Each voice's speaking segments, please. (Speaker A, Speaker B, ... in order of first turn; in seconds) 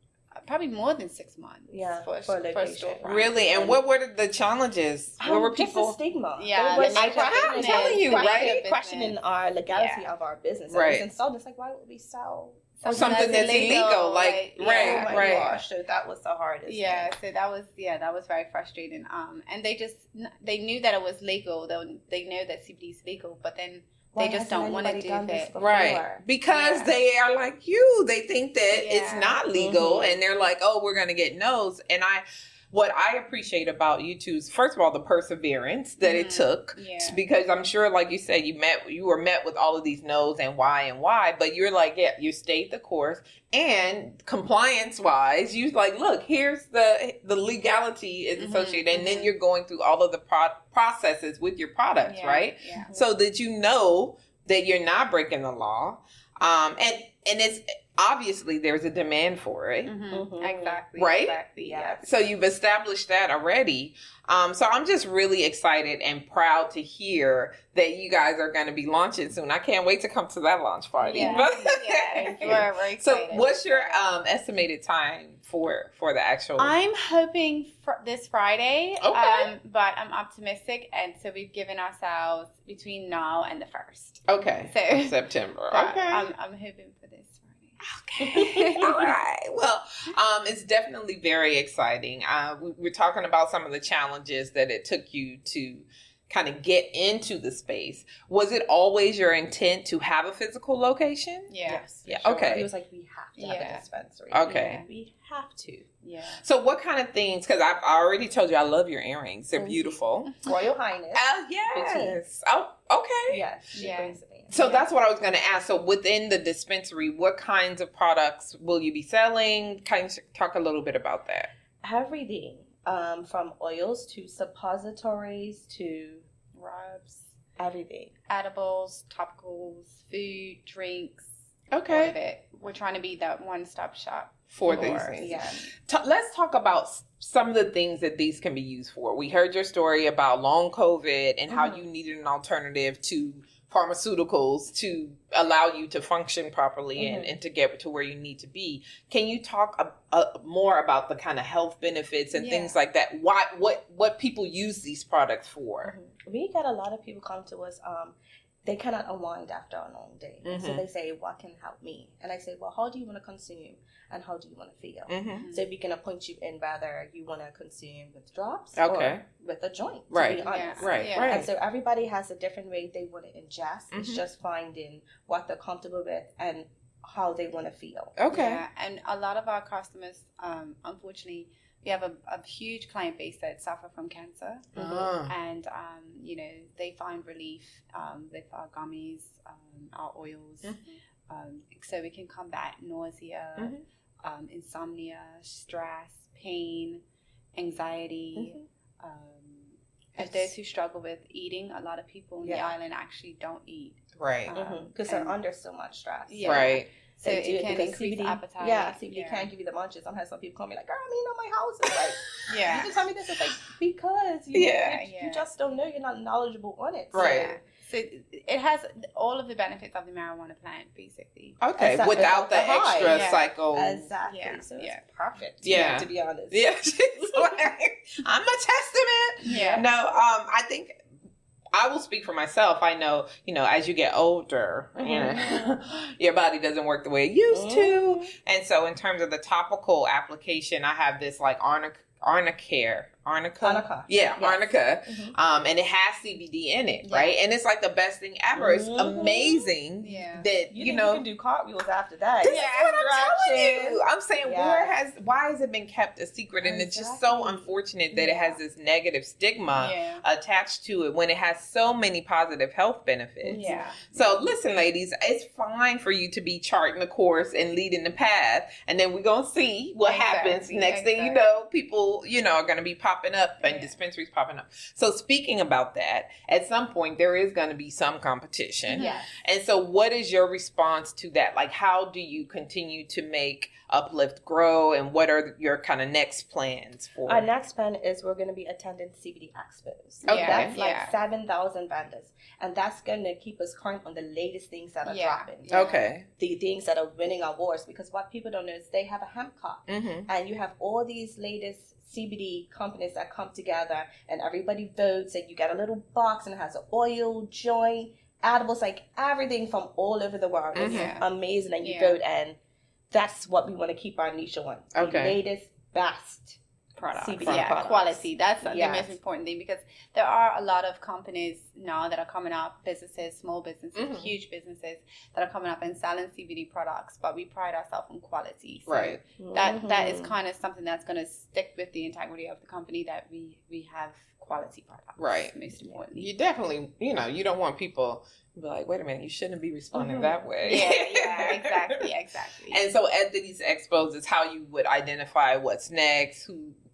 Speaker A: 0.3-3.3, 6.4-9.2, 9.7-10.1, 12.8-15.6, 16.6-25.5, 26.5-26.9, 28.7-29.4, 36.0-37.2, 48.4-49.3, 52.0-52.9, 59.8-62.0, 71.0-74.0, 76.6-85.2, 85.7-89.1, 101.5-101.8, 103.3-103.8, 104.4-104.9, 106.0-106.4, 113.7-114.9, 126.5-127.3, 128.3-135.4, 152.3-152.8, 165.3-165.7, 170.4-171.4, 178.3-197.0, 197.6-205.3, 206.3-209.5, 212.5-212.9, 214.7-215.4, 217.1-221.6, 223.1-223.5, 224.2-225.0, 229.4-229.9, 247.0-247.3, 250.0-250.5, 252.4-253.0, 259.8-260.2, 263.5-264.0, 270.0-271.6, 273.6-274.0, 278.9-279.2, 290.2-291.1, 295.0-296.0, 310.8-311.2, 311.8-312.2, 317.0-336.3, 340.6-342.8
Speaker B: 1.7-3.8, 5.2-13.8, 14.6-17.1, 24.1-26.2, 29.5-30.2, 60.1-60.8, 61.6-62.0, 71.0-71.5, 72.2-72.6, 88.2-89.1, 101.7-105.9, 109.5-112.2, 113.3-114.5, 121.8-126.2, 127.6-128.1, 134.7-135.7, 141.5-141.8, 146.9-147.3, 155.8-178.1, 198.4-198.6, 202.4-202.7, 204.5-217.6, 221.8-227.4, 229.4-230.0, 235.0-235.7, 237.5-238.3, 243.6-245.3, 248.5-249.7, 250.7-254.9, 256.6-258.6, 263.4-264.5, 278.9-279.4, 287.2-312.6, 313.1-316.6, 317.1-319.1, 329.4-330.3, 339.9-340.4
Speaker C: 3.0-6.0, 6.8-8.6, 10.7-11.1, 12.9-15.6, 25.6-59.9, 61.0-61.4, 62.0-76.7, 79.0-79.5, 84.3-86.3, 87.8-101.5, 102.0-102.7, 104.3-104.8, 106.4-110.3, 111.1-113.4, 114.5-121.5, 131.7-132.1, 134.5-155.9, 160.4-160.8, 165.1-165.4, 168.8-169.2, 170.1-171.5, 173.9-174.2, 178.2-178.6, 184.7-185.3, 190.6-190.9, 193.6-193.8, 200.2-200.5, 204.2-204.5, 206.4-206.9, 214.5-215.0, 217.1-217.5, 221.6-224.1, 225.6-231.0, 231.7-251.2, 252.4-287.4, 290.3-290.7, 295.7-296.3, 299.9-300.3, 310.7-311.1, 314.9-315.4, 317.4-317.7, 323.9-324.3, 328.9-329.2, 335.2-335.5, 336.1-342.1, 342.7-346.8